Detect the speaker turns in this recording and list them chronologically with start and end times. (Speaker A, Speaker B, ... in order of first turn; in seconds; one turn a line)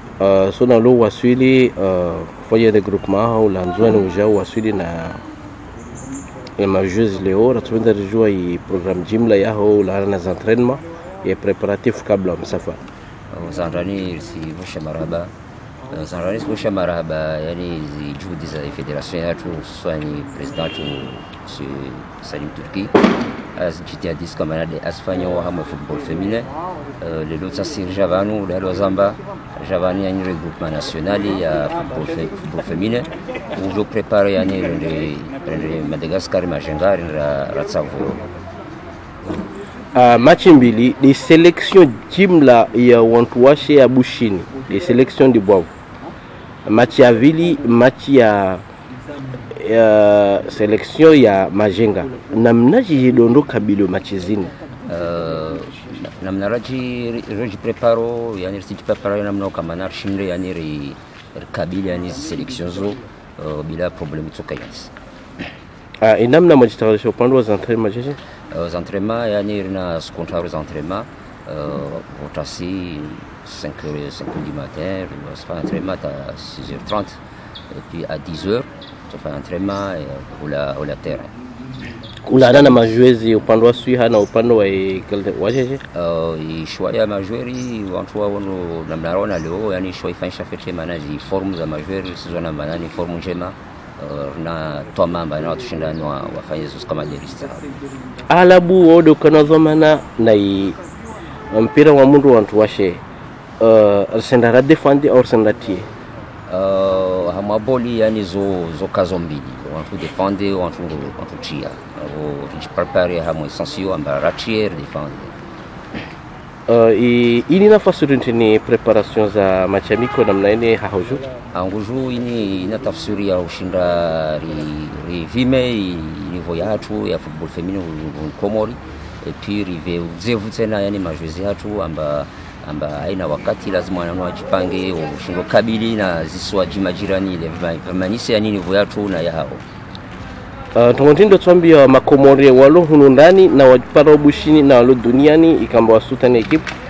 Speaker A: 0.2-5.2
Speaker A: 6.6-12.8
Speaker B: 13.3-15.3
Speaker B: 15.9-23.0
Speaker B: 23.6-38.2
Speaker A: 39.9-45.7
Speaker A: 46.7-48.6
Speaker A: 49.5-54.5
Speaker B: 54.9-64.9
Speaker A: 66.0-68.2
Speaker B: 68.5-77.2
Speaker B: 77.7-81.3
Speaker A: 82.3-85.8
Speaker B: 82.3-83.0
Speaker B: 85.9-97.7
Speaker A: 98.3-100.8
Speaker A: 101.5-103.0
Speaker A: 103.6-105.9
Speaker B: 106.5-115.3
Speaker A: 116.7-121.2
Speaker B: 121.5-139.6
Speaker A: 140.8-146.7